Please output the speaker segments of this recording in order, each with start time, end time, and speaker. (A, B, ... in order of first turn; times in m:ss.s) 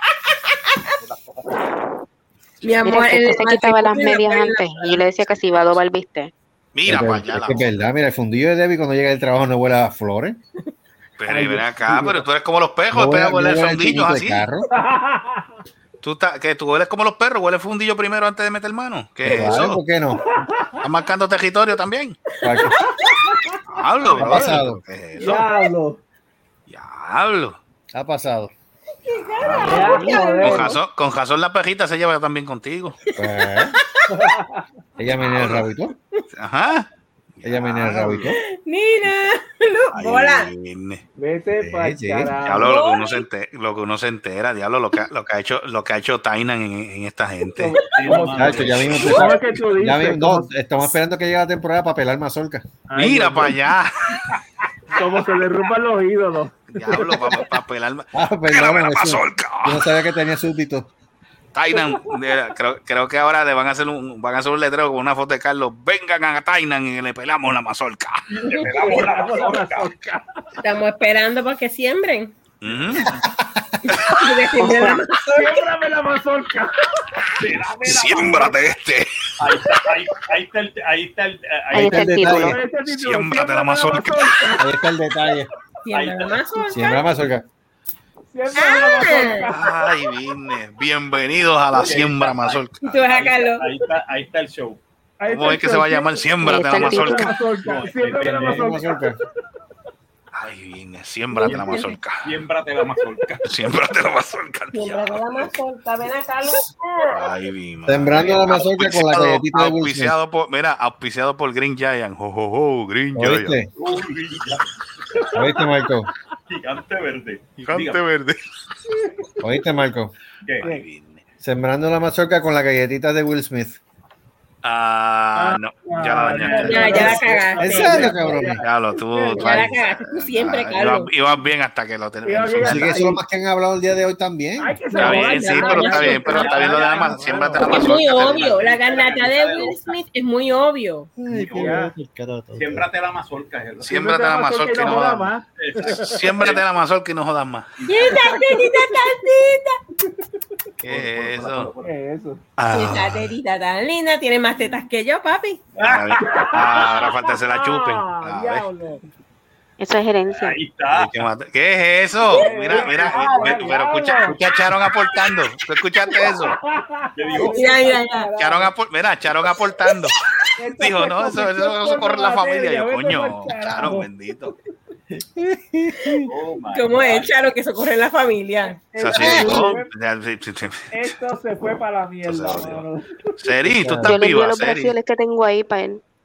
0:00.7-0:01.0 A
0:01.0-0:01.4 B
0:02.6-0:05.0 A
0:02.8-0:06.3 C
0:06.7-0:07.7 D
0:06.9-0:10.4 E
0:11.2-0:14.5 D
0:11.3-0:12.2 F
0:12.9-0:14.6 E
0:14.7-0:15.5 F
0:16.0-0:19.8 D
0:19.2-0:20.2 E
0:20.5-0:20.7 F
0:20.8-0:22.2 D
0:22.4-0:22.7 E
0:22.4-0:23.1 A
0:22.9-0:23.6 F
0:23.7-0:25.5 D
0:24.1-0:24.6 F
0:24.2-0:24.8 E
0:25.2-0:26.0 F
0:26.7-0:27.6 D
0:27.9-0:28.5 E
0:29.1-0:30.8 A
0:29.1-0:33.0 D
0:29.7-0:30.7 F
0:30.0-0:30.6 E
0:33.2-0:34.1 A
0:33.2-0:33.8 E
0:34.1-0:34.7 F
0:35.0-0:35.9 E
0:35.1-0:35.7 D
0:36.3-0:38.4 D
0:37.4-0:38.4 E
0:38.5-0:40.5 A
0:39.9-0:41.0 D
0:41.2-0:42.8 F
0:41.6-0:42.3 E
0:42.4-0:47.8 D
0:42.6-0:43.2 A
0:47.6-0:50.5 F
0:48.0-0:49.2 B
0:48.2-0:52.7 E
0:48.5-0:49.1 D
0:52.9-0:53.6 F
0:53.0-0:54.3 D
0:54.9-0:57.5 F
0:56.7-1:00.2 D
0:58.1-1:00.9 E
1:01.5-1:08.2 D
1:01.7-1:02.2 F
1:08.3-1:09.9 B
1:08.6-1:10.3 F
1:10.6-1:12.3 A
1:12.6-1:13.1 D
1:12.6-1:13.3 B
1:13.9-1:14.2 D
1:14.1-1:15.5 A
1:14.6-1:15.0 C
1:15.3-1:17.2 F
1:17.4-1:18.6 B
1:17.8-1:19.5 D
1:19.4-1:22.1 B
1:21.7-1:22.6 E
1:21.7-1:22.6 C
1:22.3-1:24.7 F
1:22.9-1:24.5 D
1:24.6-1:25.5 E
1:25.8-1:27.1 A
1:25.9-1:26.7 B
1:26.7-1:27.5 E
1:28.3-1:29.7 F
1:28.5-1:29.5 A
1:29.5-1:33.0 D
1:31.8-1:34.8 B
1:32.8-1:33.8 A
1:35.2-1:39.0 F
1:35.3-1:37.3 D
1:36.4-1:37.4 C
1:37.6-1:39.0 B
1:38.2-1:39.2 E
1:40.3-1:42.4 D
1:41.5-1:43.5 B
1:43.4-1:45.6 D
1:44.7-1:47.3 A
1:47.1-1:53.6 D
1:47.9-1:50.1 E
1:53.2-1:53.7 E
1:53.8-1:55.4 B
1:55.4-1:56.1 E
1:56.5-1:58.0 B
1:57.6-1:58.4 D
1:59.4-2:00.1 E
2:00.6-2:01.2 D
2:01.4-2:03.8 E
2:04.6-2:13.2 D
2:05.4-2:09.7 F
2:06.4-2:08.1 A
2:07.6-2:08.6 E
2:09.4-2:11.1 A
2:12.2-2:13.2 F
2:12.6-2:14.8 E
2:14.6-2:17.4 F
2:14.9-2:16.6 A
2:15.0-2:18.8 D
2:16.2-2:19.9 B
2:17.1-2:17.8 E
2:17.6-2:21.1 A
2:21.2-2:22.9 E
2:21.3-2:21.8 B
2:21.6-2:21.9 F
2:22.6-2:25.0 B
2:23.8-2:25.3 D
2:24.0-2:26.1 F
2:25.6-2:26.6 B
2:25.9-2:27.7 D
2:27.8-2:28.4 B
2:27.9-2:29.8 A
2:28.1-2:29.0 F
2:30.8-2:31.7 D
2:30.8-2:31.9 B
2:31.8-2:32.4 F
2:32.6-2:33.3 D
2:32.7-2:35.6 A
2:35.8-2:37.0 B
2:35.8-2:38.7 D
2:36.2-2:39.0 F
2:39.8-2:40.6 C
2:40.3-2:41.2 B
2:40.9-2:46.6 D
2:42.3-2:44.4 F
2:43.1-2:43.4 A
2:46.6-2:48.7 F
2:47.2-2:47.6 B
2:47.5-2:48.3 A
2:48.4-2:50.2 D
2:50.6-2:54.1 F
2:50.8-2:54.6 D
2:55.1-2:56.3 E
2:56.1-2:58.8 A
2:56.3-2:57.4 B
2:58.7-2:59.9 F
2:59.0-3:01.2 D
2:59.2-2:59.6 E
3:00.9-3:03.1 F
3:02.2-3:02.9 D
3:03.4-3:04.9 D
3:03.7-3:04.2 E
3:04.1-3:06.0 C